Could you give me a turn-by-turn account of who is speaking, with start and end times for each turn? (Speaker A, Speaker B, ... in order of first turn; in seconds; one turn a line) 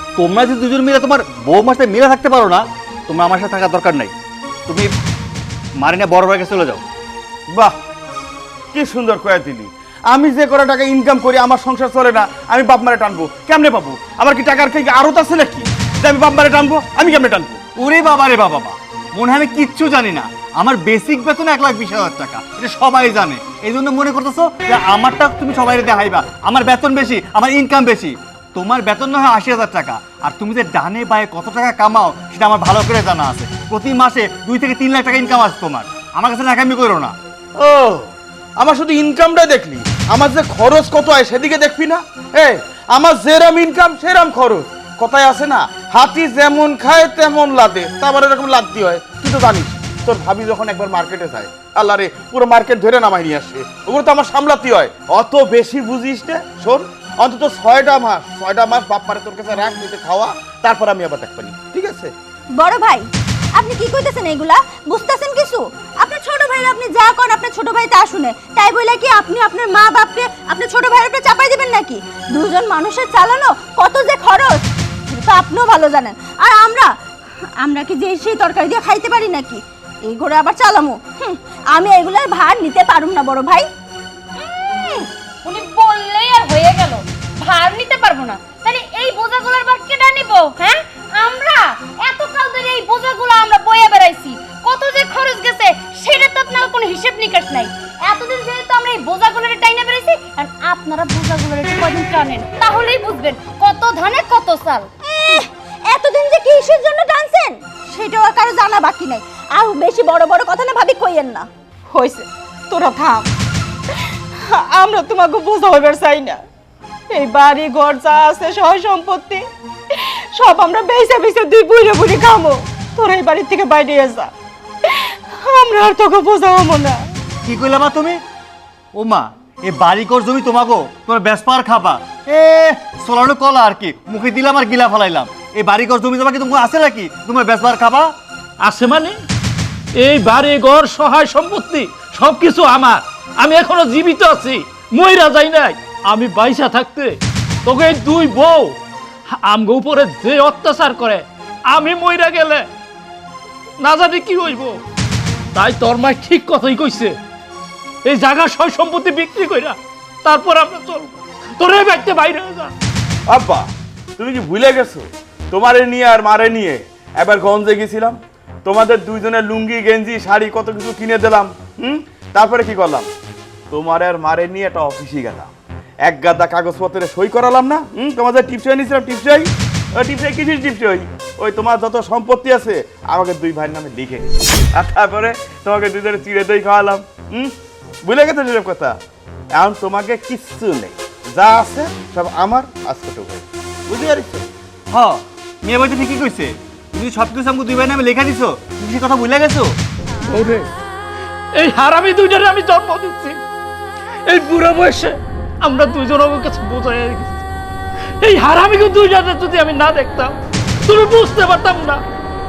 Speaker A: 0.2-4.1
Speaker A: 5.8-6.8
Speaker B: 7.5-7.8
Speaker B: 8.7-17.6
Speaker A: 17.8-37.1
Speaker B: 37.6-62.1
Speaker C: 62.6-76.9
Speaker C: 77.6-83.7
Speaker D: 84.4-104.9
Speaker C: 105.0-111.5
Speaker E: 111.9-113.3
Speaker E: 114.5-116.4
Speaker E: 117.1-119.4
Speaker E: 120.0-124.3
Speaker E: 124.9-127.0
Speaker A: 127.5-128.2
Speaker A: 128.9-138.1
Speaker F: 138.6-139.2
Speaker F: 140.0-148.8
Speaker F: 149.4-152.7
Speaker F: 153.8-154.8
Speaker F: 155.6-157.2
Speaker F: 158.1-162.7
Speaker B: 163.3-173.1
Speaker B: 173.7-175.5
Speaker B: 176.1-187.5
Speaker B: 188.1-189.0
Speaker B: 189.6-194.4
Speaker A: 194.9-199.8
Speaker F: 200.3-200.7
Speaker F: 201.6-203.4
Speaker F: 204.3-207.4
Speaker F: 208.2-212.0